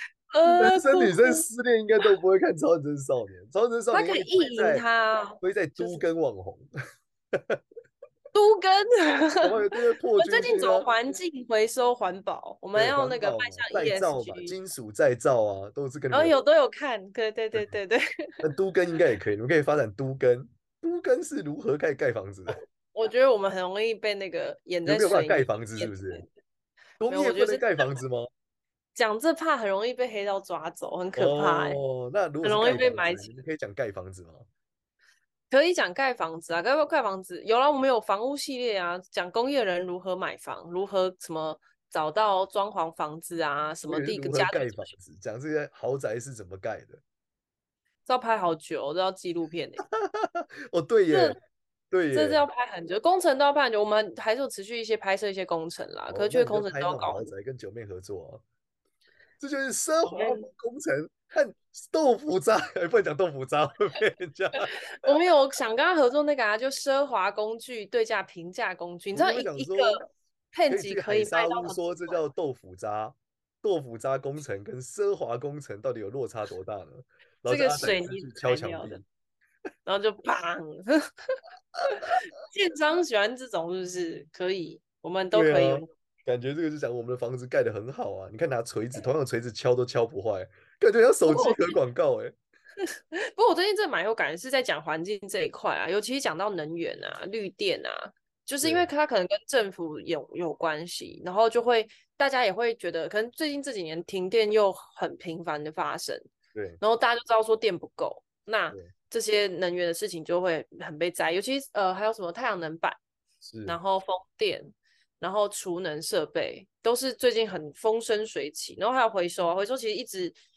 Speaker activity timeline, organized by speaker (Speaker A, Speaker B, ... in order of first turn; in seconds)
Speaker A: 0.3-1.4, 3.9-6.0, 8.3-14.6, 16.1-18.4, 22.9-26.3, 27.1-27.9, 28.9-31.8, 32.4-33.3, 35.5-44.9, 48.0-49.8, 51.1-51.4, 52.1-57.3, 60.0-60.5, 64.6-72.1, 77.5-79.0, 79.8-85.9, 91.3-91.8, 93.1-106.2, 106.8-113.0, 113.7-120.3
Speaker B: 0.5-4.8, 5.4-6.7, 9.4-10.9, 12.7-16.3, 18.4-22.6, 24.9-26.2, 27.0-28.3, 31.1-34.5, 43.9-47.0, 49.9-51.4, 51.9-52.5, 56.1-58.4, 59.4-65.1, 69.1-70.0, 70.7-79.0, 85.3-92.3, 98.6-98.9, 106.5-106.8, 113.4-113.8